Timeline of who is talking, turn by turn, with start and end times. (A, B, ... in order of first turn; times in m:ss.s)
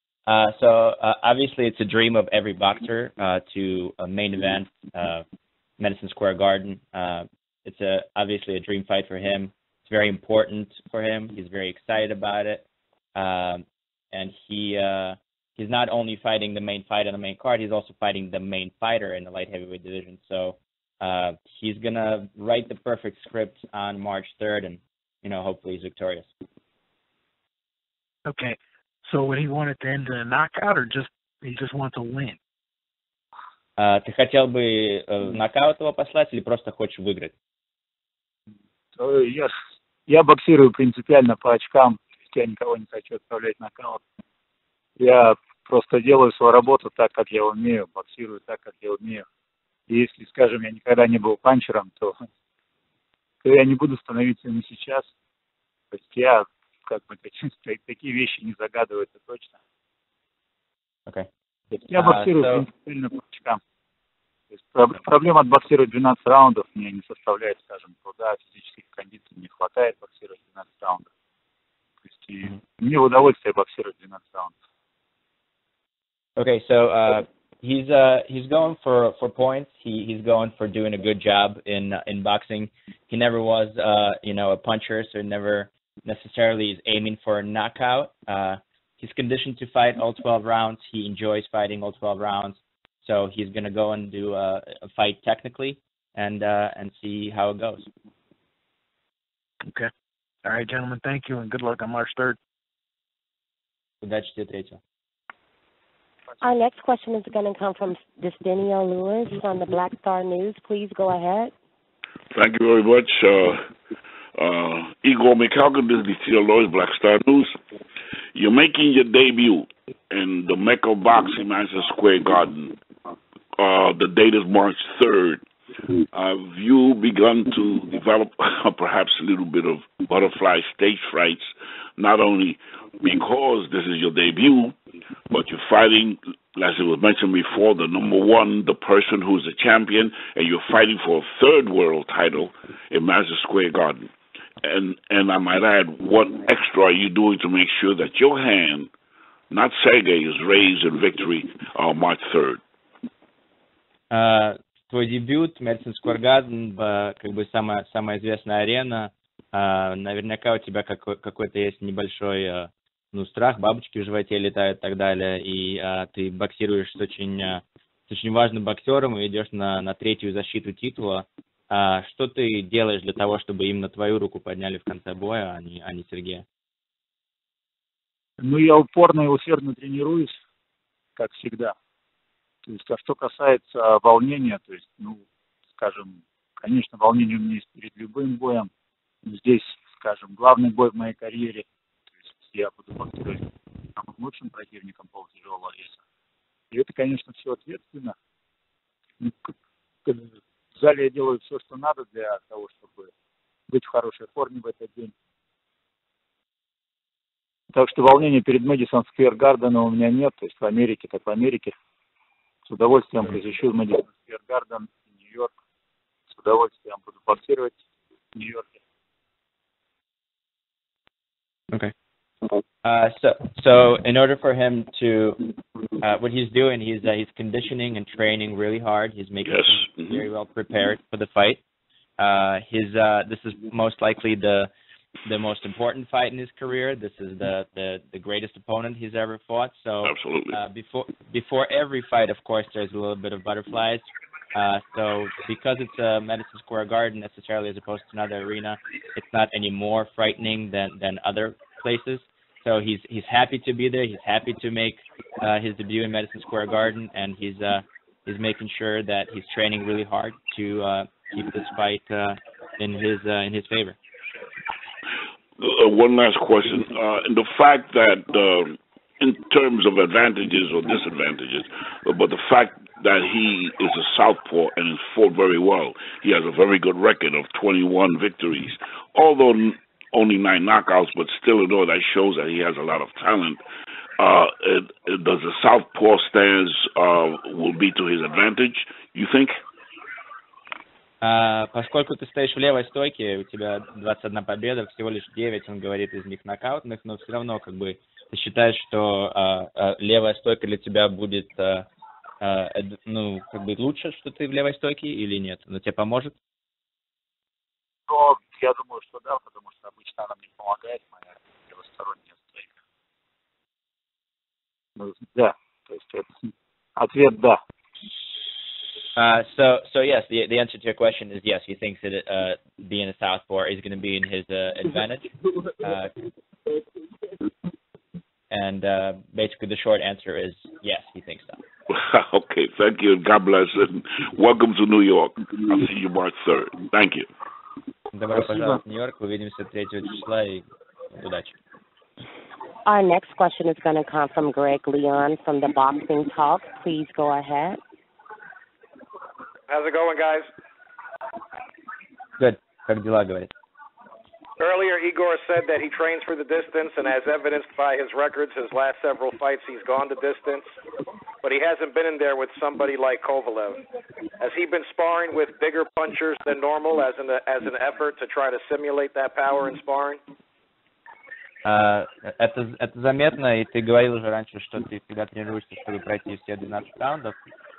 0:00.3-0:05.2 A
0:05.8-0:26.3 A
0:28.2-0:32.4 B
0:33.8-0:37.3 A
0:39.0-0:39.5 C
0:40.1-0:44.0 C
0:45.0-0:49.2 C
0:49.9-0:52.2 C
0:53.4-0:55.1 C
0:55.9-0:59.6 C
1:01.7-1:03.6 C
1:01.9-1:02.7 A
1:04.5-1:11.0 C
1:12.1-1:14.5 C
1:16.4-1:37.8 A
1:39.6-1:39.9 B
1:40.4-1:42.4 B
1:44.0-1:44.8 A
1:46.4-1:51.5 D
1:52.3-1:53.7 E
1:54.4-1:57.6 E
1:58.3-2:02.8 E
2:03.6-2:05.4 E
2:06.1-2:14.8 E
2:15.3-2:28.9 E
2:29.5-2:32.6 E
2:34.1-2:56.4 A
2:58.4-3:00.4 C
3:01.2-3:01.7 C
3:02.6-3:05.2 C
3:05.8-3:08.7 C
3:09.2-3:11.6 C
3:12.3-3:13.4 C
3:14.0-3:16.0 C
3:16.7-3:18.1 C
3:19.2-3:19.5 C
3:20.0-3:23.1 C
3:23.7-3:25.1 C
3:27.7-3:31.7 C
3:32.6-3:35.5 C
3:36.3-3:37.8 C
3:38.3-3:38.7 C
3:42.8-3:45.5 A
3:46.0-3:51.6 A
3:49.4-3:50.2 E
3:52.2-3:54.7 A
3:55.3-4:24.0 A
4:00.0-4:00.6 E
4:25.6-4:43.6 E
4:44.2-4:49.6 E
4:51.2-5:01.8 A
5:02.4-5:06.3 A
5:08.1-5:12.6 C
5:15.0-5:16.4 C
5:17.0-5:17.6 C
5:19.2-5:25.3 A
5:25.8-5:26.1 A
5:28.5-5:31.6 A
5:31.9-5:37.3 E
5:38.1-5:41.5 A
5:42.8-5:47.8 D
5:49.7-5:50.5 F
5:52.4-5:53.5 A
5:54.6-6:00.7 F
6:01.4-6:03.8 F
6:04.4-6:10.2 F
6:11.6-6:17.3 A